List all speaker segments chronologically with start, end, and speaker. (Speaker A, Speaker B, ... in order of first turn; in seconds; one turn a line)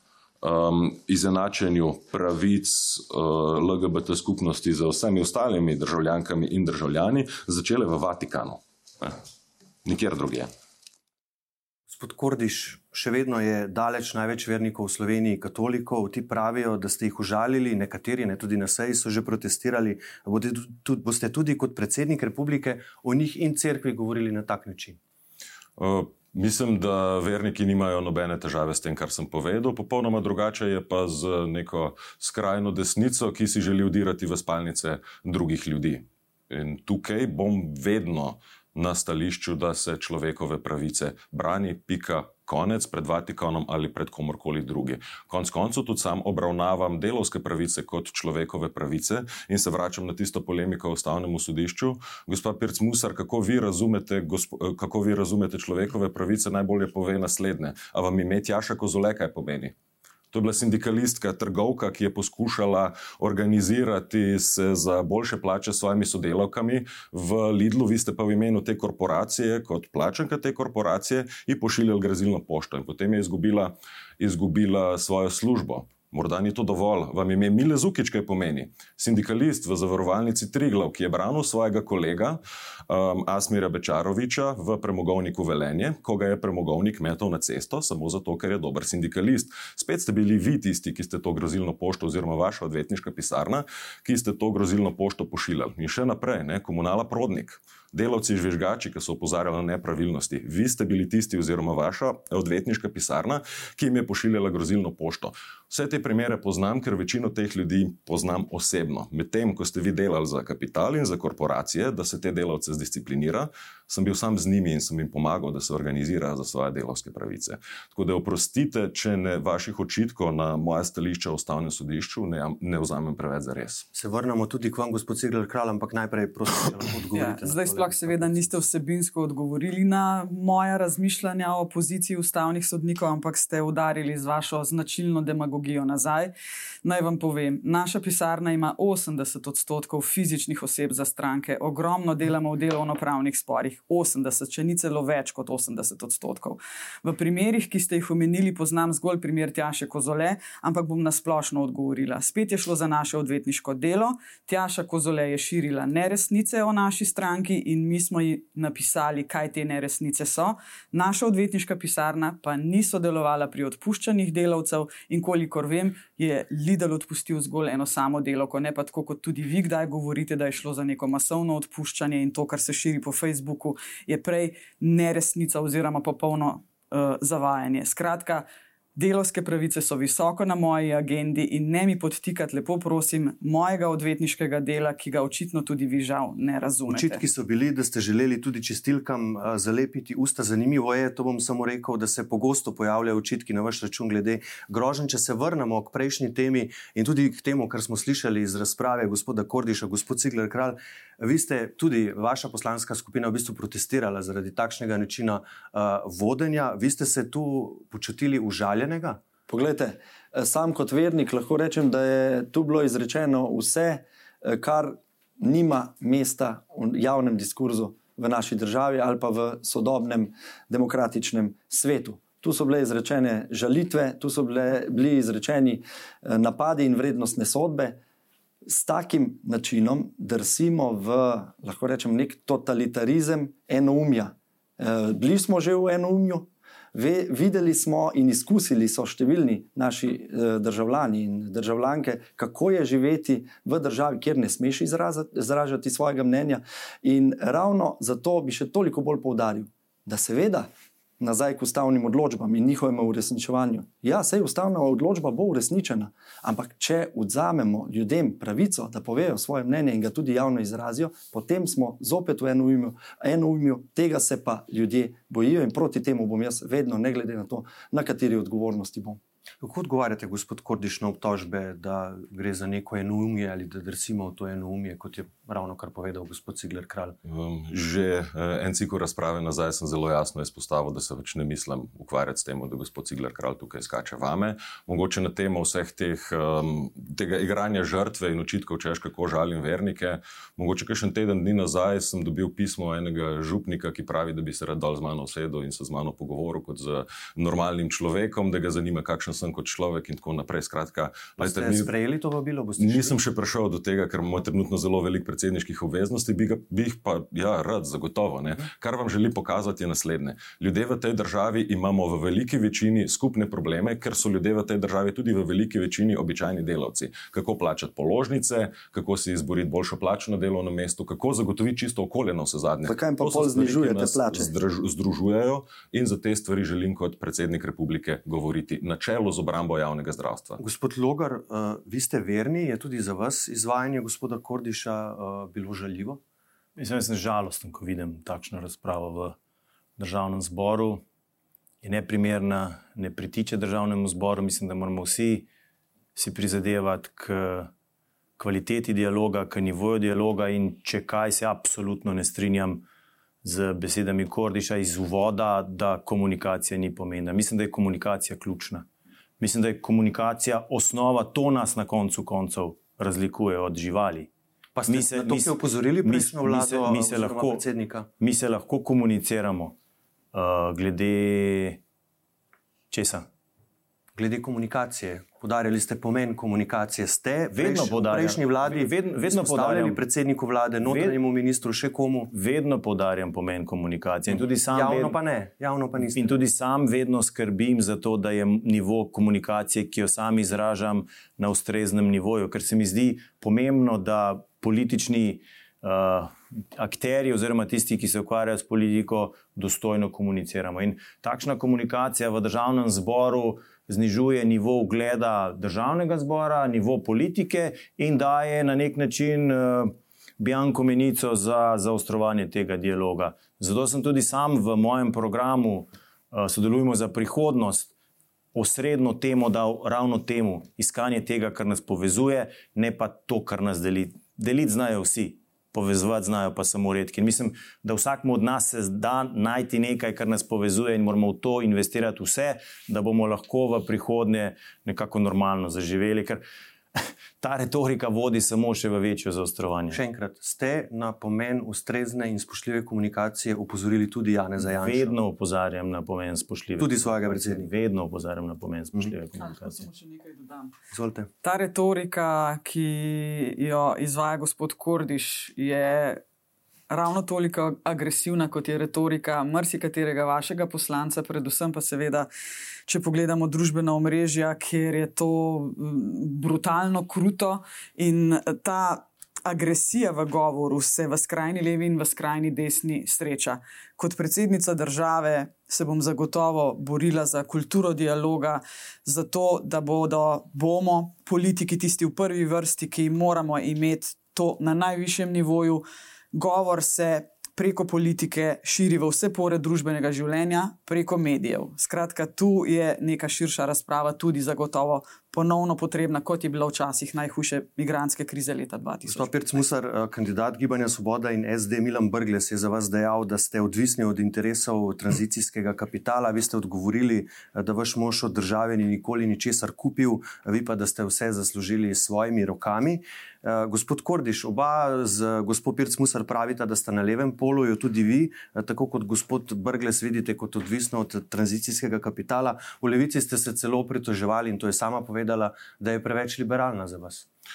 Speaker A: 0.4-9.2
Speaker A: 9.8-10.5
Speaker B: 11.9-25.0
Speaker A: 25.8-59.7
Speaker A: 60.3-123.9
Speaker B: 123.9-128.6
Speaker C: 127.1-136.3
Speaker C: 136.8-178.4
Speaker C: 179.0-187.2
Speaker B: 186.9-209.2
Speaker D: 209.5-228.0
Speaker D: 228.7-250.7
Speaker D: 251.2-269.2
Speaker B: 269.6-277.2
Speaker A: 277.3-301.9
Speaker B: 301.4-303.2
Speaker A: 302.8-330.6
Speaker D: 322.9-324.5
Speaker B: 330.6-336.2
Speaker E: 336.8-339.4
Speaker E: 340.0-341.0
Speaker E: 341.8-345.5
Speaker E: 346.1-347.7
Speaker E: 348.4-352.9
Speaker E: 353.4-358.9
Speaker E: 359.4-364.3
Speaker B: 364.8-368.1
Speaker E: 364.9-367.6
Speaker E: 368.2-369.8
Speaker E: 370.3-371.8
Speaker E: 372.9-373.3
Speaker B: 374.2-382.3
Speaker E: 377.5-380.0
Speaker E: 380.8-381.2
Speaker E: 382.3-385.2
Speaker B: 384.3-386.4
Speaker E: 386.0-417.9
Speaker E: 418.5-436.4
Speaker E: 437.0-440.0
Speaker B: 439.9-445.2
Speaker E: 444.7-449.9
Speaker B: 446.8-447.7
Speaker C: 449.4-450.7
Speaker B: 450.9-451.3
Speaker C: 451.4-456.2
Speaker C: 456.9-462.3
Speaker C: 462.9-499.6
Speaker B: 499.1-527.3